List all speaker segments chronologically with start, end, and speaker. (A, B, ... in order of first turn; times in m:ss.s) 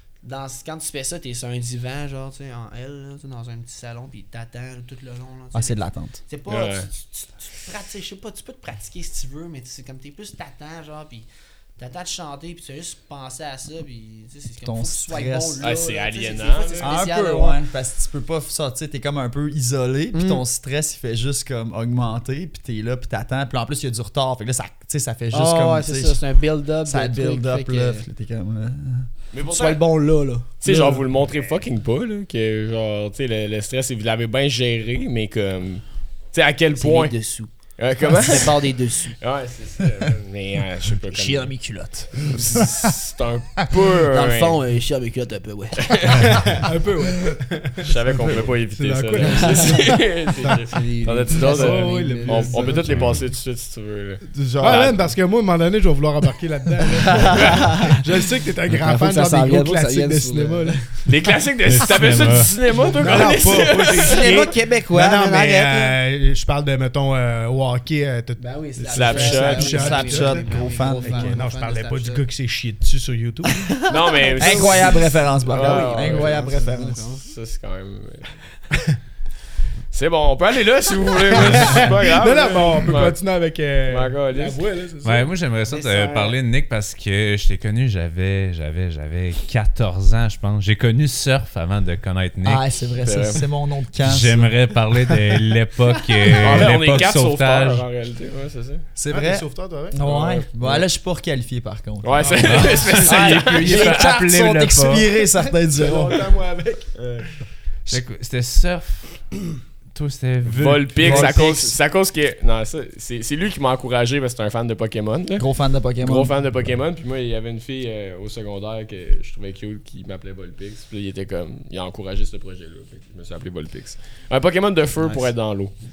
0:00.2-0:11.2 A
0:05.5-0:06.2 B
0:06.5-0:06.9 C
0:11.8-0:17.6 A
0:14.6-0:15.6 B
0:15.6-0:16.9 C
0:16.8-0:26.2 B
0:20.1-0:20.4 A
0:25.3-0:28.0 A
0:26.8-0:29.1 B
0:29.3-0:29.8 C
0:29.5-0:31.0 A
0:30.6-0:41.6 C
0:36.8-0:39.2 A
0:41.2-0:42.9 B
0:41.2-0:41.7 A
0:42.1-0:44.6 C
0:44.0-0:46.4 A
0:45.9-0:46.3 C
0:46.2-0:50.5 D
0:47.8-0:55.1 C
0:49.2-0:52.9 A
0:51.3-0:53.2 D
0:52.9-0:53.2 E
0:54.3-1:00.8 D
0:56.9-0:58.0 A
0:58.7-1:01.1 A
1:01.0-1:04.4 C
1:01.6-1:02.6 E
1:02.9-1:13.7 D
1:03.5-1:06.0 A
1:08.4-1:12.2 A
1:08.9-1:09.9 C
1:09.5-1:11.4 B
1:13.7-1:17.2 A
1:13.9-1:16.5 C
1:14.4-1:17.0 B
1:17.2-1:18.4 C
1:19.9-1:23.2 C
1:21.2-1:25.3 D
1:23.9-1:24.6 C
1:25.0-1:32.6 E
1:25.6-1:26.4 A
1:32.4-1:34.5 B
1:33.0-1:33.4 C
1:34.0-1:37.8 E
1:36.4-1:38.8 C
1:39.0-1:46.2 B
1:39.1-1:40.0 D
1:40.0-1:40.8 C
1:42.0-1:44.1 C
1:42.1-1:44.1 D
1:42.4-1:45.1 E
1:45.6-1:47.0 D
1:47.0-1:47.3 C
1:47.9-1:49.3 E
1:49.9-1:51.5 E
1:50.5-1:55.5 C
1:51.0-1:51.7 B
1:55.4-1:56.3 B
1:56.0-2:05.7 C